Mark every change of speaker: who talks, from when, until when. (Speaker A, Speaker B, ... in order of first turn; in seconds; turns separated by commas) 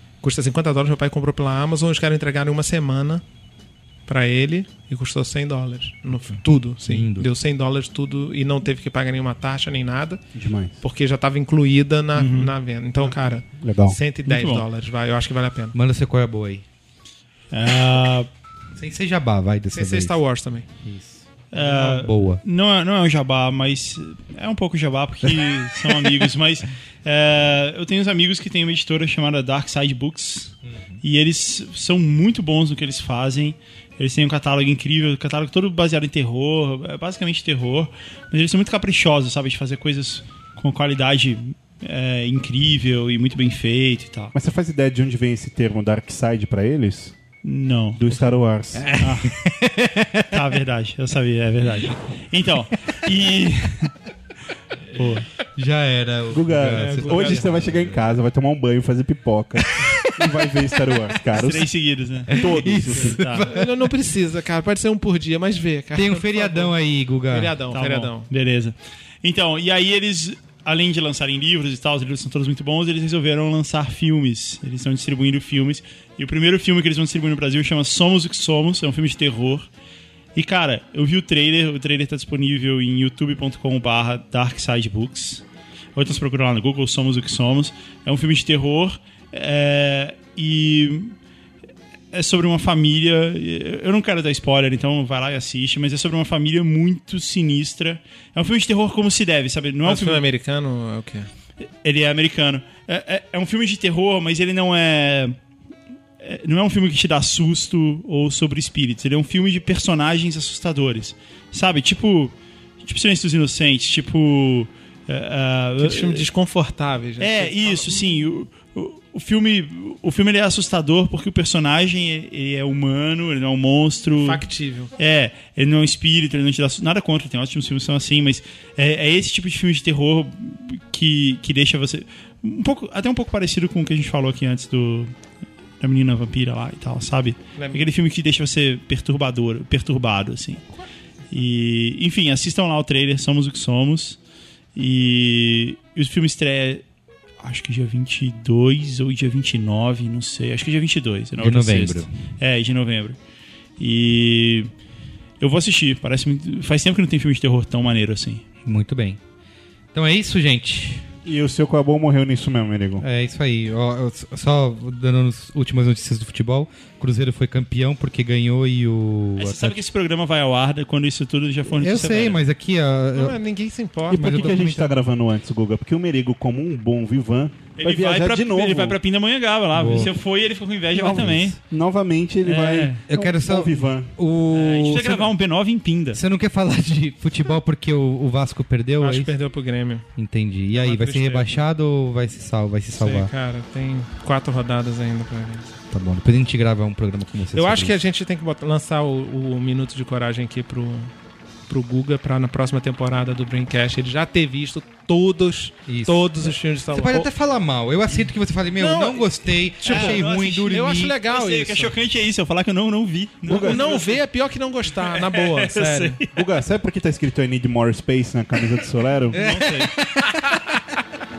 Speaker A: 0.2-3.2, Speaker A: 4.0-10.2, Speaker B: 6.2-7.3, Speaker C: 10.3-10.8, Speaker A: 10.8-15.7, Speaker D: 12.1-12.5, Speaker C: 13.6-14.0, Speaker D: 14.2-14.7, Speaker B: 15.7-16.6, Speaker D: 17.5-18.3, Speaker B: 18.7-20.2, Speaker A: 19.7-20.7, Speaker B: 20.8-22.4, Speaker D: 21.5-44.3, Speaker B: 30.7-31.0, Speaker C: 44.3-47.1, Speaker D: 47.4-48.2, Speaker C: 47.9-48.9, Speaker B: 48.7-50.4, Speaker D: 49.0-49.4, Speaker D: 50.3-54.0, Speaker B: 51.6-51.9, Speaker D: 54.9-55.3, Speaker B: 55.5-58.1, Speaker C: 56.3-61.7, Speaker A: 56.7-57.5, Speaker B: 59.6-61.1, Speaker D: 61.3-63.5, Speaker C: 62.2-63.2, Speaker B: 62.3-63.9, Speaker A: 63.4-66.7, Speaker B: 66.0-67.6, Speaker A: 67.3-68.3, Speaker D: 67.7-79.7, Speaker D: 80.3-91.2, Speaker D: 92.1-100.2, Speaker A: 99.8-101.3, Speaker D: 101.6-105.3, Speaker D: 106.2-116.3, Speaker A: 115.8-118.2, Speaker D: 117.2-124.4, Speaker A: 124.2-124.9, Speaker D: 125.0-135.1, Speaker D: 135.8-140.7, Speaker A: 137.6-137.8, Speaker D: 141.3-144.2, Speaker D: 144.7-146.8, Speaker D: 147.4-153.2, Speaker B: 151.4-152.1, Speaker D: 153.8-154.7, Speaker D: 155.4-158.4, Speaker B: 158.6-159.2, Speaker B: 159.9-161.1, Speaker C: 161.2-163.0, Speaker B: 163.0-169.8, Speaker D: 169.4-172.4, Speaker B: 171.7-173.4, Speaker A: 173.1-174.6, Speaker C: 174.1-179.0, Speaker B: 174.1-174.9, Speaker D: 177.8-181.6, Speaker B: 179.7-180.1, Speaker B: 181.0-181.6, Speaker C: 181.0-184.1, Speaker D: 182.4-183.0, Speaker B: 183.1-185.3, Speaker D: 184.5-186.2, Speaker B: 186.1-189.3, Speaker A: 189.0-190.1, Speaker B: 190.2-193.3, Speaker A: 190.7-191.5, Speaker A: 192.9-195.7, Speaker B: 195.9-198.0, Speaker A: 197.5-201.1, Speaker A: 201.7-207.3, Speaker B: 205.9-211.2, Speaker A: 208.8-211.9, Speaker D: 209.8-210.7, Speaker D: 211.2-214.2, Speaker C: 213.4-213.9, Speaker A: 213.5-216.2, Speaker D: 214.9-216.3, Speaker C: 216.3-219.4, Speaker D: 219.3-219.9, Speaker B: 219.4-220.8